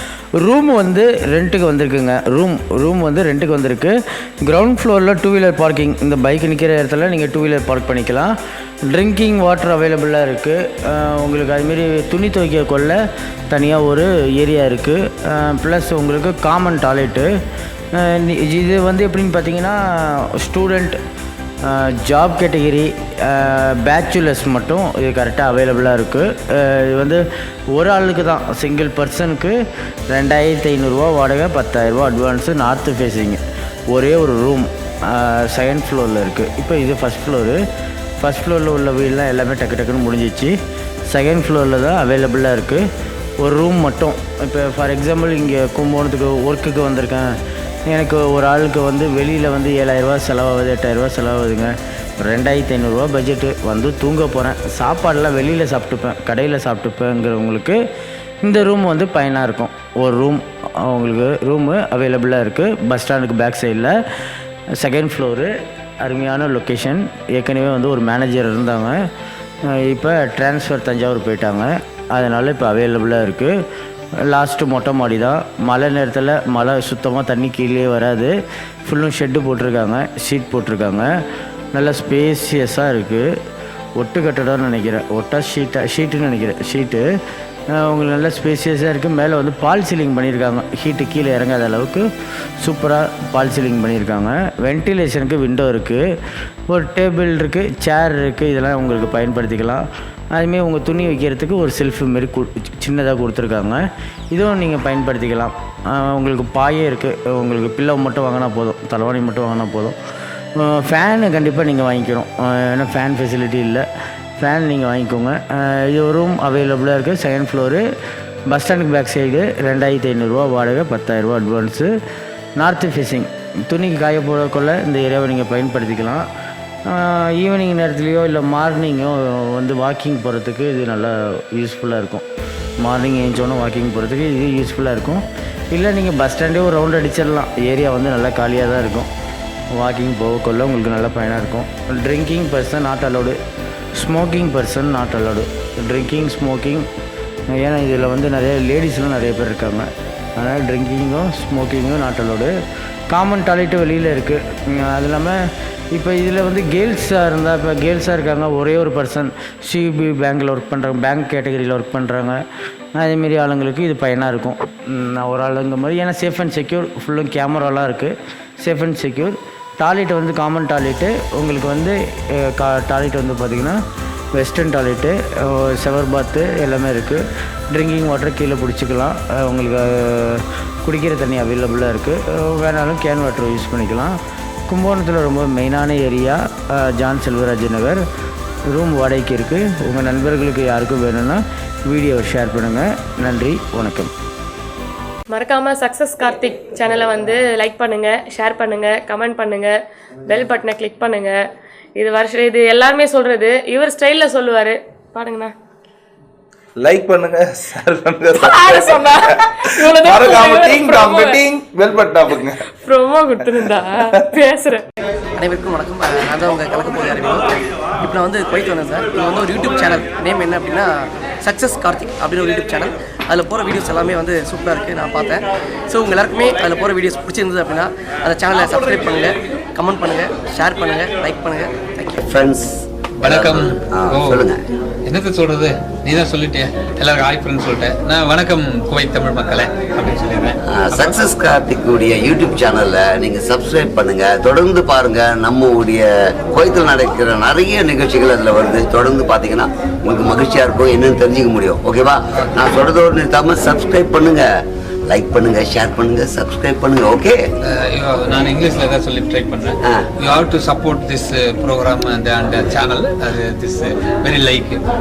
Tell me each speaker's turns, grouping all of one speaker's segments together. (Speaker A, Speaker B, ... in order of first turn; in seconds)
Speaker A: 0.4-8.3, 8.9-17.3, 17.9-21.0, 21.6-29.6, 30.1-37.6, 38.2-40.5, 41.1-42.8, 43.4-47.3, 47.9-57.8, 58.4-63.9, 64.8-69.0, 69.7-73.6, 74.2-78.3, 78.8-81.1, 81.7-83.3, 84.0-87.0, 87.7-92.1, 92.6-96.0, 96.7-110.0, 110.6-113.8, 114.4-117.8, 118.5-121.9, 122.6-126.2, 126.9-132.2, 132.8-139.1, 139.7-143.4, 143.9-146.9, 147.5-152.5, 153.1-155.4, 155.9-162.4, 163.0-173.8, 174.3-184.2, 184.7-188.0, 188.7-194.1
Speaker B: 195.3-199.7, 200.2-201.3, 202.0-205.5, 208.5-211.4, 212.8-214.8
Speaker C: 206.8-212.7, 213.5-214.4
Speaker D: 215.4-217.4, 218.0-220.9, 221.4-232.2
Speaker E: 232.2-234.6, 240.7-254.4, 255.1-257.4
Speaker F: 233.2-234.4, 235.1-241.2, 257.6-264.8